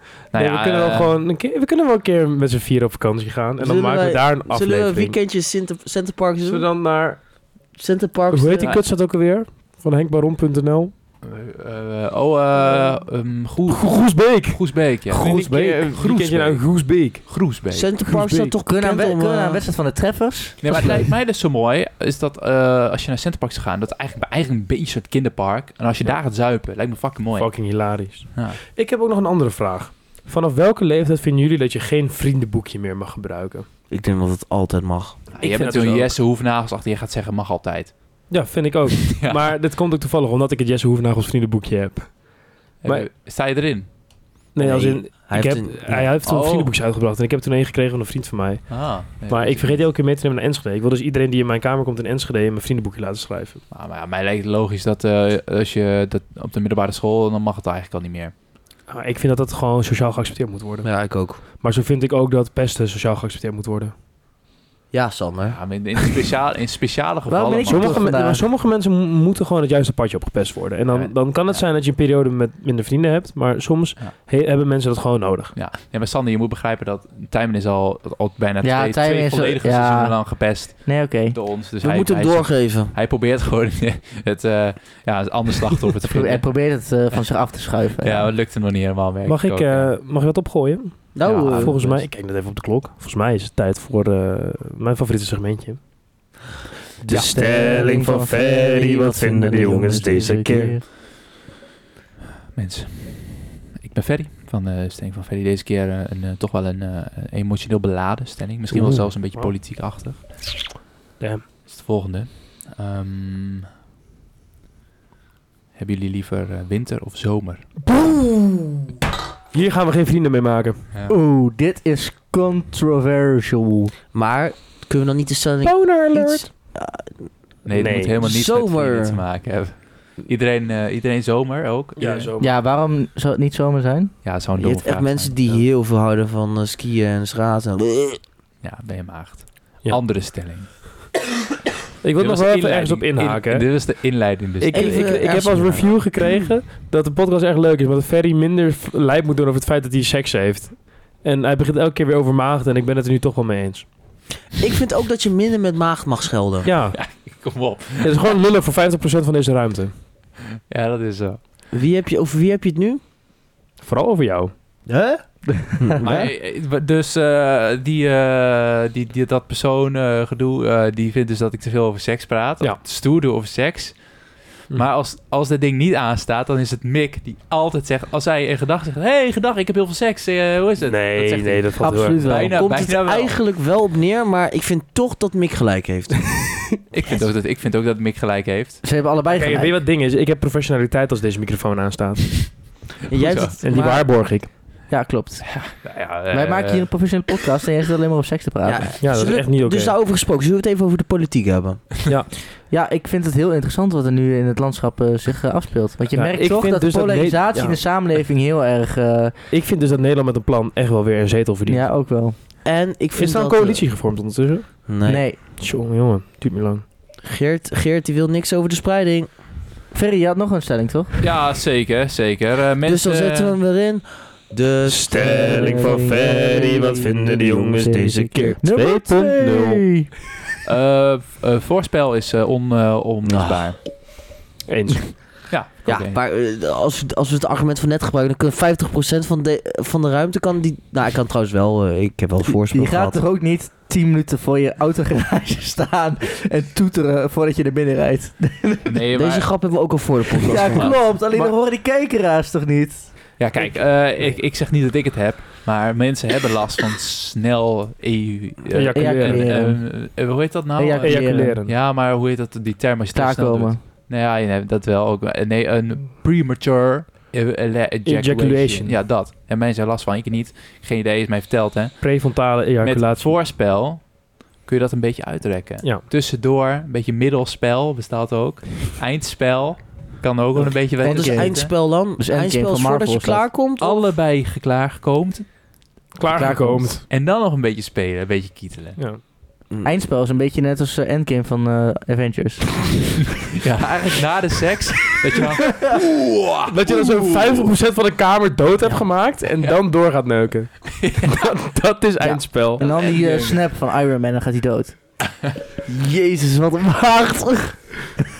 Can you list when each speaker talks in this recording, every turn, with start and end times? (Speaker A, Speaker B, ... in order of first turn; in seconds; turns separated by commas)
Speaker A: 0.3-1.1, Speaker B: 0.4-5.2, Speaker C: 3.6-6.7, Speaker B: 6.5-7.2, Speaker C: 7.8-8.7, Speaker B: 8.3-10.9, Speaker A: 11.2-17.9, Speaker B: 13.7-17.4, Speaker C: 17.7-19.7, Speaker B: 18.0-18.6, Speaker D: 18.7-21.1, Speaker A: 20.6-28.6, Speaker B: 20.7-21.1, Speaker B: 27.4-33.7, Speaker C: 33.9-35.2, Speaker B: 35.3-36.1, Speaker A: 35.4-38.2, Speaker B: 38.3-42.3, Speaker A: 39.0-39.5, Speaker A: 42.8-43.9, Speaker B: 44.5-53.6, Speaker C: 44.6-46.2, Speaker A: 46.2-46.7, Speaker A: 48.7-49.9, Speaker A: 53.7-58.3, Speaker B: 58.9-63.9, Speaker C: 60.8-61.4, Speaker C: 64.9-65.6, Speaker A: 65.5-68.0, Speaker D: 67.3-68.5, Speaker B: 67.7-75.5, Speaker A: 70.9-71.7, Speaker A: 75.5-86.5, Speaker D: 78.6-81.4, Speaker C: 81.8-82.9, Speaker D: 86.1-88.3, Speaker A: 88.0-90.0, Speaker B: 89.3-95.8, Speaker C: 91.2-91.8, Speaker A: 91.2-92.0, Speaker C: 97.0-100.1, Speaker B: 97.1-100.8, Speaker D: 97.2-98.4, Speaker D: 99.5-100.8, Speaker A: 102.5-110.4, Speaker B: 108.8-109.6, Speaker B: 111.2-111.5, Speaker A: 111.7-113.7, Speaker A: 115.8-117.8, Speaker B: 119.5-120.9, Speaker D: 121.1-123.9, Speaker C: 124.1-127.3, Speaker B: 125.6-126.5, Speaker A: 127.7-132.3, Speaker B: 127.7-128.2, Speaker C: 128.2-129.2, Speaker B: 132.0-132.5, Speaker D: 132.4-134.2, Speaker A: 134.2-135.7, Speaker C: 134.6-138.2, Speaker A: 138.6-141.1, Speaker B: 142.0-144.0, Speaker A: 142.2-145.2, Speaker B: 144.6-153.9, Speaker C: 144.7-146.1, Speaker C: 154.6-156.7, Speaker B: 156.6-157.0, Speaker A: 156.9-158.1, Speaker B: 158.0-159.9, Speaker A: 160.6-161.4, Speaker C: 161.7-163.0, Speaker B: 163.8-164.5, Speaker C: 164.9-165.2, Speaker C: 165.8-166.3, Speaker A: 166.0-183.4, Speaker B: 180.8-182.2, Speaker D: 181.8-182.6, Speaker C: 182.3-186.7, Speaker A: 186.9-188.8, Speaker D: 188.8-189.7, Speaker B: 189.3-192.5, Speaker C: 193.1-193.8, Speaker A: 193.1-193.6, Speaker B: 193.6-194.5, Speaker D: 193.7-194.1, Speaker D: 194.9-195.7, Speaker A: 195.4-197.4, Speaker D: 196.3-199.0, Speaker C: 198.6-202.0, Speaker B: 199.0-199.9, Speaker D: 202.7-209.3, Speaker B: 206.1-207.8, Speaker B: 209.5-211.9, Speaker D: 211.7-212.4, Speaker C: 212.7-213.9, Speaker B: 213.2-214.9, Speaker C: 214.9-215.3, Speaker D: 215.1-215.4, Speaker B: 215.5-216.8, Speaker C: 217.2-219.3, Speaker D: 219.9-221.2, Speaker A: 221.2-223.6, Speaker C: 222.8-228.8, Speaker B: 224.8-229.8, Speaker D: 225.2-227.2, Speaker D: 228.6-230.1, Speaker A: 230.6-233.8, Speaker C: 233.2-233.7, Speaker B: 234.7-235.2, Speaker A: 235.5-236.2, Speaker C: 235.8-243.2, Speaker D: 242.7-249.0, Speaker A: 248.9-249.5, Speaker C: 249.2-251.0, Speaker D: 250.4-253.2, Speaker A: 250.4-251.0, Speaker A: 253.4-272.2, Speaker B: 253.6-254.3, Speaker B: 258.7-259.5, Speaker D: 258.9-259.9, Speaker D: 260.8-261.6, Speaker B: 261.0-261.7, Speaker D: 263.1-263.8, Speaker B: 268.1-269.0, Speaker B: 272.0-273.4, Speaker A: 272.8-281.7, Speaker C: 281.0-284.1, Speaker D: 281.0-283.5, Speaker A: 283.8-285.8, Speaker B: 286.1-287.1, Speaker D: 286.3-287.0, Speaker A: 287.1-289.1, Speaker B: 289.0-289.2, Speaker C: 289.7-289.9, Speaker D: 289.8-293.4, Speaker A: 293.6-297.7, Speaker B: 296.7-302.8, Speaker A: 298.9-299.8, Speaker A: 300.9-301.5, Speaker D: 302.2-305.0, Speaker A: 302.8-303.7, Speaker C: 305.9-308.1